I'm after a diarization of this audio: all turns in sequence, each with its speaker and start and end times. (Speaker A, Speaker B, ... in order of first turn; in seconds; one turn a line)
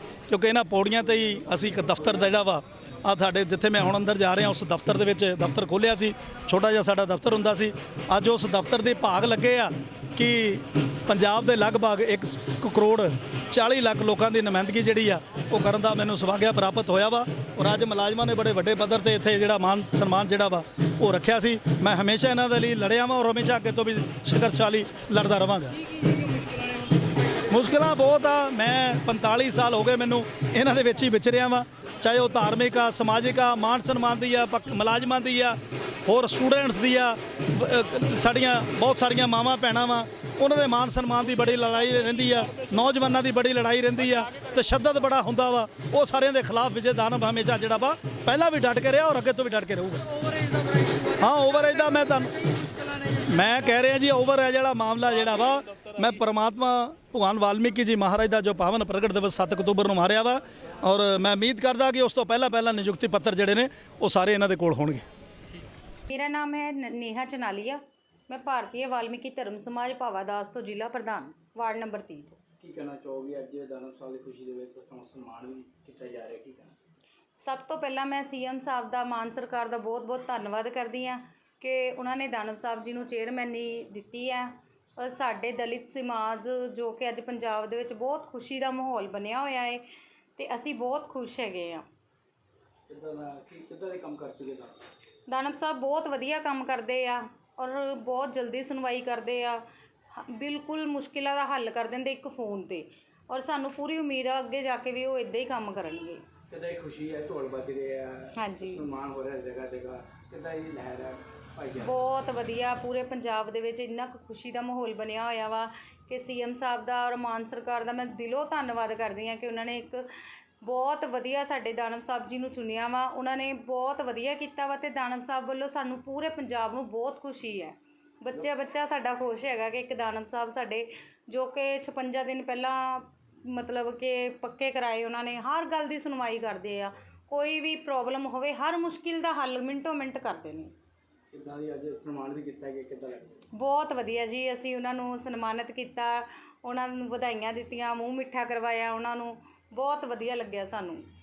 Speaker A: 0.3-25.8
Speaker A: 27.5-50.1
Speaker B: 50.2-51.3
Speaker A: 51.2-52.4
Speaker B: 52.5-53.2
Speaker A: 53.3-65.0
Speaker C: 66.1-72.4
Speaker B: 72.6-76.8
Speaker C: 77.4-89.8
Speaker C: 90.4-91.8
Speaker B: 92.9-94.8
Speaker C: 95.3-99.6
Speaker C: 100.1-106.2
Speaker B: 106.5-112.0
Speaker C: 108.4-108.8
Speaker C: 111.8-140.7
Speaker B: 141.3-143.4
Speaker C: 143.5-151.0